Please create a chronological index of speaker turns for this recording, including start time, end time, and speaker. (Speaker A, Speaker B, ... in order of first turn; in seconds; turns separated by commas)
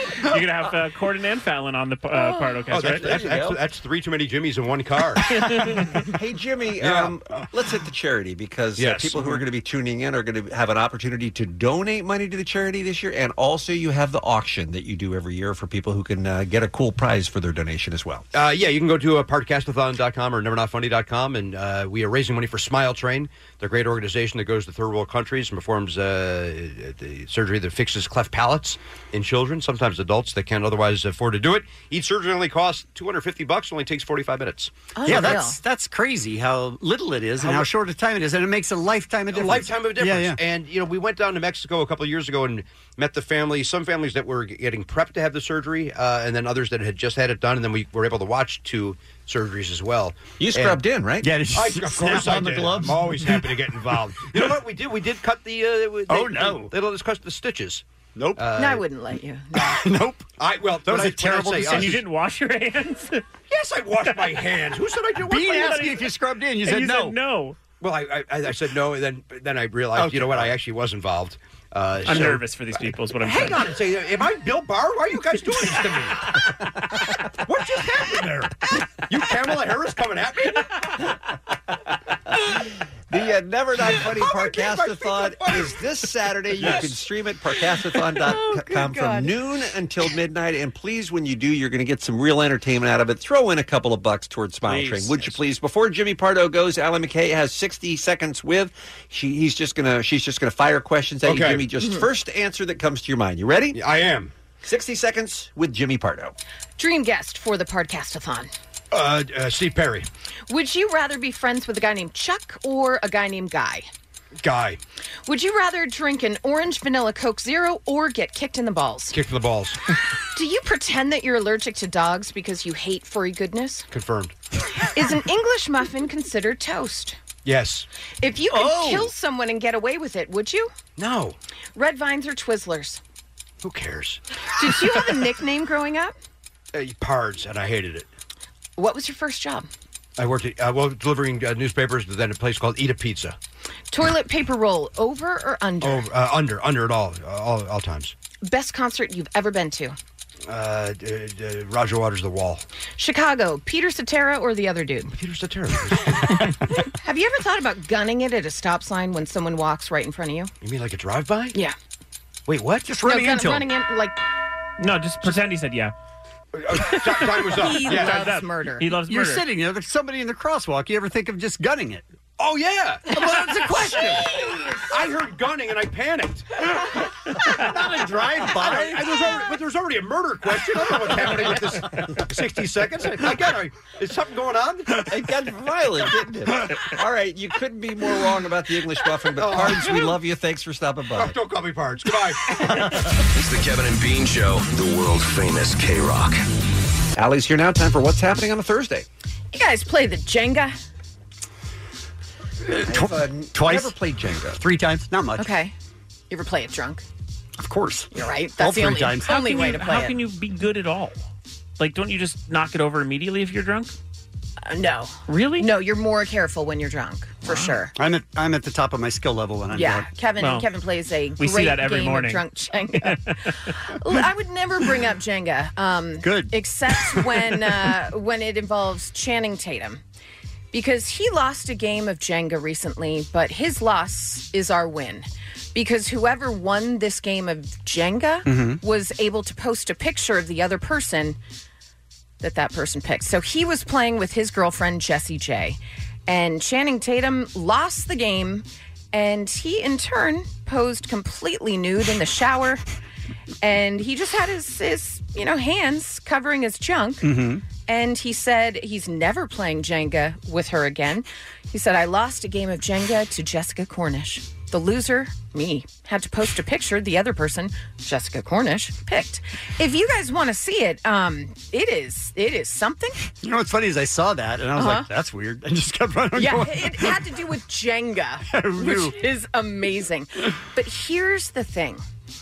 Speaker A: 0.1-3.2, Speaker B: 2.7-5.3, Speaker C: 2.7-3.6, Speaker A: 5.3-6.0, Speaker C: 6.1-18.3, Speaker B: 6.8-7.2, Speaker B: 8.8-9.4, Speaker B: 18.3-35.4, Speaker D: 35.0-35.6, Speaker E: 35.0-40.4, Speaker B: 37.4-37.7, Speaker B: 39.3-50.8, Speaker C: 50.4-51.4, Speaker E: 51.2-53.5, Speaker B: 51.5-57.8, Speaker E: 56.1-56.7, Speaker E: 58.2-58.4, Speaker B: 58.4-58.8, Speaker D: 58.5-59.8, Speaker E: 59.6-60.3, Speaker B: 60.4-62.0, Speaker E: 60.9-62.0, Speaker A: 61.6-63.2, Speaker B: 63.5-65.8, Speaker A: 64.0-64.5, Speaker E: 65.2-67.2, Speaker A: 65.5-66.1, Speaker A: 66.6-67.6, Speaker B: 67.8-72.4, Speaker E: 70.0-70.5, Speaker A: 72.0-73.7, Speaker B: 73.2-76.4, Speaker B: 77.5-78.6, Speaker B: 79.1-80.7, Speaker C: 83.1-103.8, Speaker B: 83.9-85.8, Speaker E: 86.6-86.9, Speaker B: 86.6-86.9, Speaker E: 94.7-95.3, Speaker B: 101.2-101.7, Speaker D: 101.8-102.1, Speaker B: 103.7-104.3, Speaker C: 104.6-106.4, Speaker D: 106.8-108.5, Speaker B: 108.9-110.1, Speaker D: 110.5-113.9, Speaker B: 114.4-114.8, Speaker D: 115.3-119.2, Speaker B: 119.1-119.8, Speaker D: 120.3-123.9, Speaker B: 123.9-124.3, Speaker D: 124.9-127.2, Speaker B: 127.5-127.9, Speaker D: 128.2-130.7, Speaker E: 128.5-129.1, Speaker B: 131.0-131.4, Speaker D: 131.8-133.0, Speaker B: 133.6-134.2, Speaker D: 134.6-136.2, Speaker B: 136.7-138.1, Speaker D: 138.8-139.7, Speaker B: 140.2-143.4, Speaker D: 143.9-146.1, Speaker B: 145.8-148.2, Speaker D: 148.4-150.0, Speaker B: 150.5-152.6, Speaker D: 153.0-155.1, Speaker B: 155.1-156.5, Speaker D: 156.8-160.5, Speaker B: 160.6-161.6, Speaker B: 162.5-162.9, Speaker E: 162.8-163.7, Speaker D: 163.0-164.2, Speaker A: 164.8-165.9, Speaker B: 166.6-168.2, Speaker A: 166.8-169.4, Speaker D: 167.5-168.9, Speaker E: 169.1-172.1, Speaker B: 172.4-173.6, Speaker E: 173.1-174.3, Speaker B: 174.8-176.6, Speaker E: 177.4-179.4, Speaker B: 178.5-185.0, Speaker C: 185.1-191.4, Speaker B: 189.4-190.2, Speaker B: 191.1-192.9, Speaker F: 193.3-196.4, Speaker C: 197.2-199.1, Speaker D: 199.5-200.8, Speaker E: 202.7-204.0, Speaker C: 202.8-204.6, Speaker E: 204.5-205.5, Speaker D: 205.4-205.7, Speaker D: 206.3-207.0, Speaker E: 207.6-209.3, Speaker D: 208.1-210.2, Speaker A: 209.3-211.2, Speaker A: 211.8-213.9, Speaker D: 214.6-217.9, Speaker A: 215.3-215.7, Speaker E: 217.5-220.1, Speaker D: 219.7-230.0, Speaker A: 220.4-220.7, Speaker A: 221.4-223.3, Speaker E: 226.2-227.7, Speaker D: 230.7-241.4, Speaker E: 238.5-238.8, Speaker D: 242.4-252.8, Speaker D: 253.6-257.4, Speaker E: 257.2-257.6, Speaker D: 257.9-273.3, Speaker E: 273.4-277.2, Speaker D: 274.8-275.1, Speaker D: 276.4-282.0, Speaker E: 278.5-279.2